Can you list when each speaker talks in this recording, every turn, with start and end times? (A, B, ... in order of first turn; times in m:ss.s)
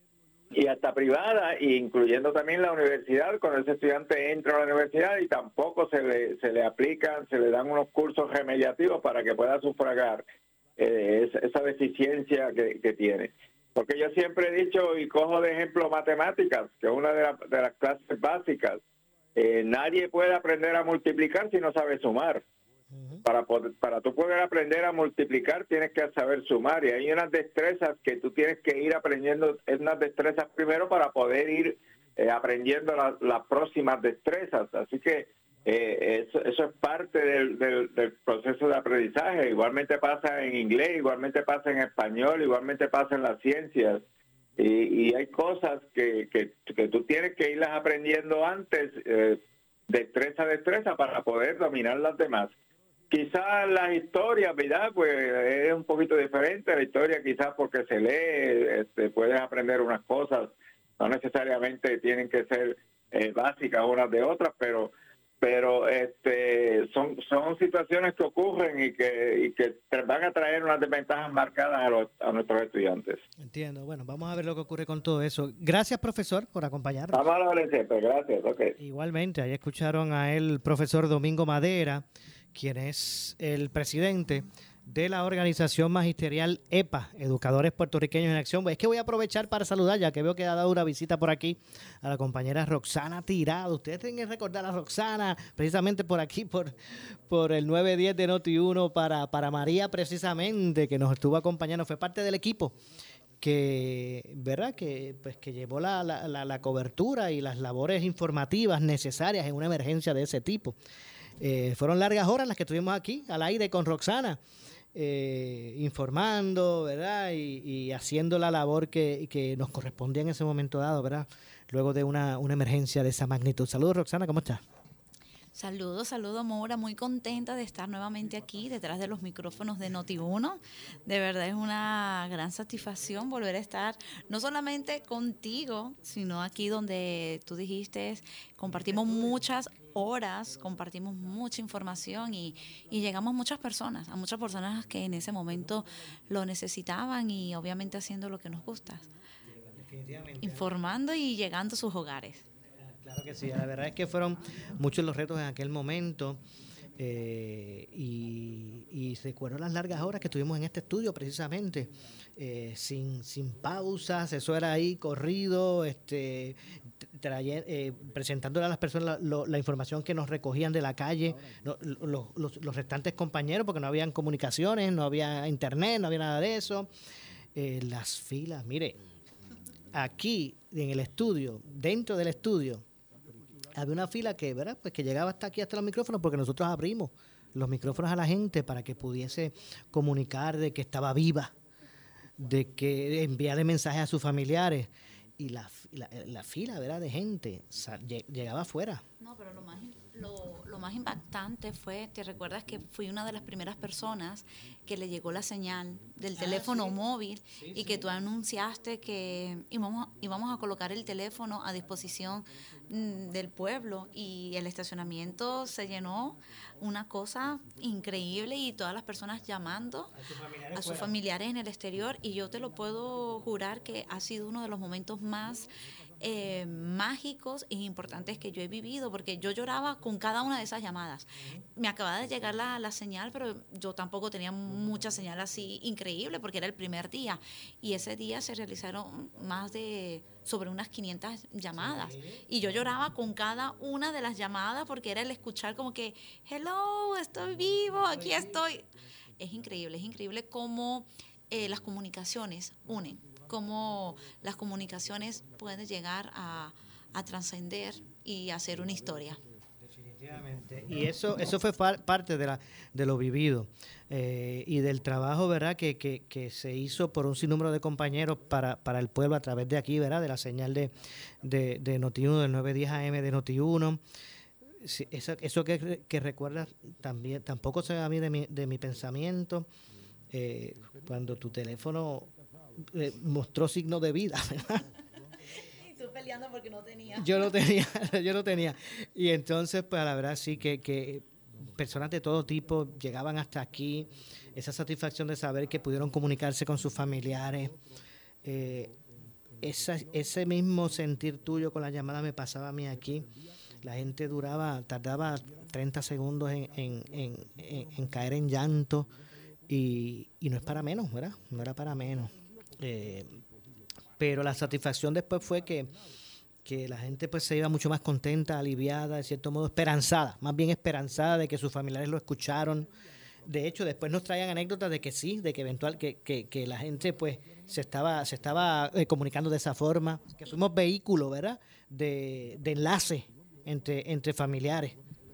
0:00.5-0:10.2 A
0:10.8-0:18.8 A
0:19.4-0:22.4 A
0:22.9-0:23.2 B
0:23.2-0:44.0 A
0:44.6-0:52.5 A
0:53.1-1:13.2 A
1:13.4-1:17.2 B
1:17.1-1:18.7 A
1:18.8-1:42.8 B
1:43.4-1:50.8 B
1:51.4-1:54.4 B
1:54.9-2:04.6 B
2:05.5-2:29.1 C
2:18.7-2:19.3 B
2:29.6-2:30.7 B
2:30.4-2:32.4 C
2:32.8-2:36.4 B
2:37.0-2:56.9 B
2:57.5-2:59.0 B
2:59.9-3:02.8 B
3:03.7-3:11.5 B
3:12.4-3:19.0 B
3:19.2-3:40.1 C
3:26.4-3:27.0 B
3:27.5-3:28.0 B
3:40.1-3:41.1 B
3:40.7-3:45.7 C
3:46.2-4:08.9 C
4:01.7-4:02.4 B
4:08.1-4:08.6 B
4:09.4-4:19.4 C
4:19.8-4:34.0 B
4:34.8-4:39.7 B
4:40.3-4:44.8 B
4:45.7-4:47.6 C
4:47.2-4:57.8 B
4:58.4-4:58.9 B
4:59.6-5:03.3 B
5:03.8-5:09.1 B
5:09.7-5:13.3 B
5:14.2-5:15.9 B
5:16.6-5:22.9 B
5:23.4-5:35.0 B